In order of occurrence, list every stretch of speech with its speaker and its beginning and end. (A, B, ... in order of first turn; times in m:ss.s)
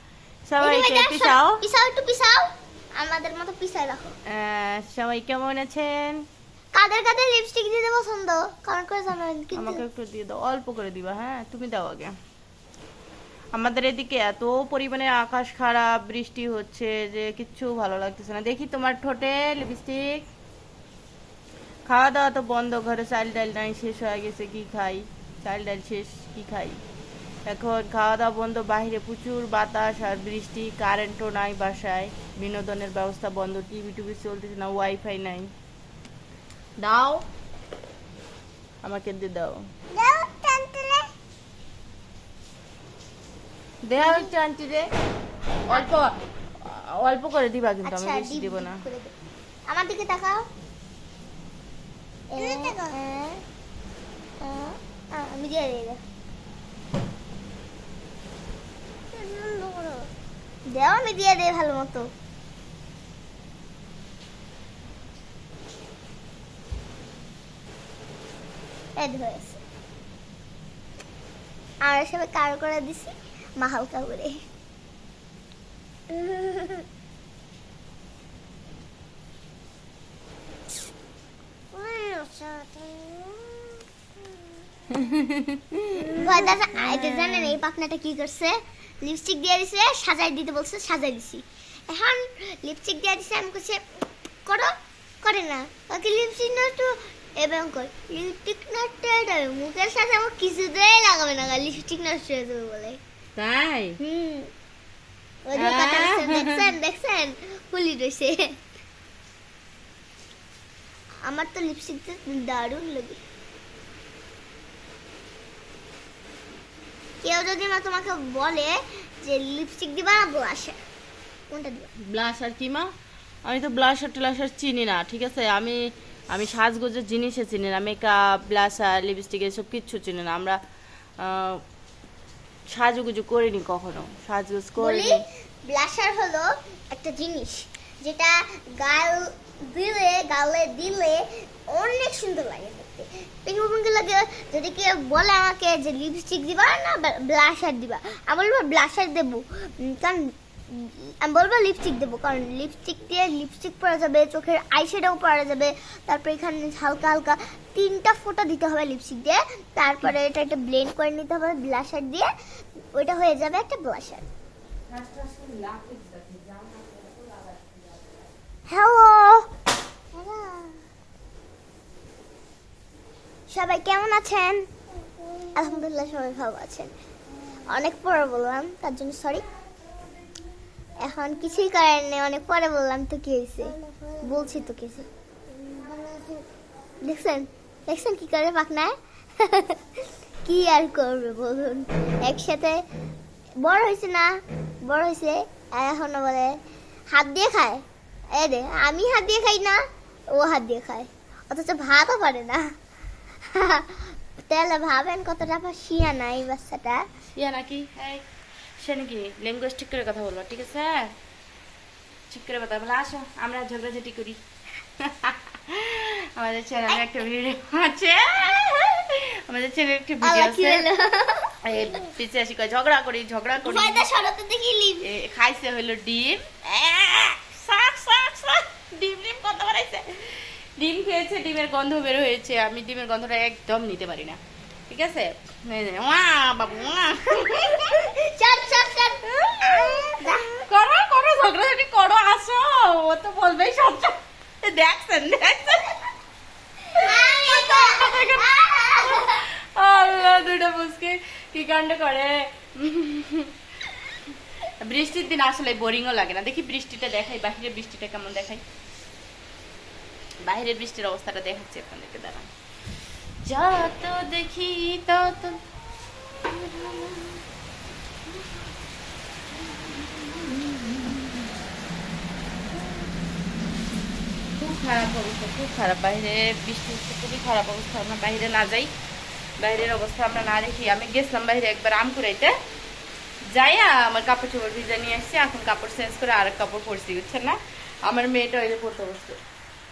0:00.5-0:01.6 A
0:00.6-0:04.1 B
0:04.3-0:06.2 A
0:06.7-0:09.8 B
0:09.5-0:12.1 A
0:13.5-0:20.2 A
0:21.8-0:26.8 A
0:27.4-0:35.5 A
0:36.8-0:37.2 A
0:38.8-0:39.6 A
0:39.9-0:41.1 B
0:43.8-0:44.9 A
0:44.0-0:44.3 B
0:45.7-0:48.8 A
0:47.8-0:49.1 B
0:49.7-0:50.4 B
0:52.3-0:53.4 B
0:54.4-0:56.0 B
0:59.1-1:00.0 B
1:00.7-1:02.1 B
1:09.0-1:09.6 B
1:11.8-1:14.4 B
1:16.1-1:16.8 B
1:21.7-1:23.6 B
1:24.9-1:27.6 A
1:26.1-1:33.8 B
1:34.5-1:43.0 B
1:43.4-1:44.0 A
1:44.0-1:44.5 B
1:45.4-1:48.6 B
1:45.6-1:46.7 A
1:51.2-1:53.2 B
1:57.2-2:00.8 B
2:01.5-2:01.9 B
2:02.0-2:02.9 A
2:03.4-2:05.8 A
2:06.3-2:10.6 A
2:11.2-2:11.6 A
2:12.7-2:15.2 A
2:14.8-2:42.3 B
2:42.9-2:44.2 B
2:44.9-2:48.0 A
2:48.7-2:49.5 B
2:50.1-2:50.8 B
2:53.5-2:54.7 B
2:55.5-2:56.9 B
2:57.7-2:59.4 B
3:01.0-3:05.1 B
3:05.6-3:06.3 B
3:07.0-3:09.8 B
3:10.4-3:12.8 B
3:13.6-3:16.6 B
3:17.1-3:19.8 B
3:20.3-3:22.7 B
3:23.5-3:27.0 B
3:27.3-3:28.2 A
3:28.8-3:31.1 A
3:32.3-3:34.4 A
3:35.0-3:40.8 A
3:40.2-3:41.5 B
3:41.6-3:44.1 A
3:43.6-3:45.1 B
3:45.0-3:58.1 A
3:57.8-4:00.6 B
3:59.3-4:06.0 A
4:06.9-4:13.5 A
4:07.0-4:09.4 B
4:14.6-4:18.6 A
4:20.4-4:22.5 A
4:23.4-4:25.6 A
4:26.4-4:27.4 A
4:30.1-4:31.2 A
4:34.6-4:38.9 A
4:39.6-4:42.5 A
4:43.5-4:49.4 A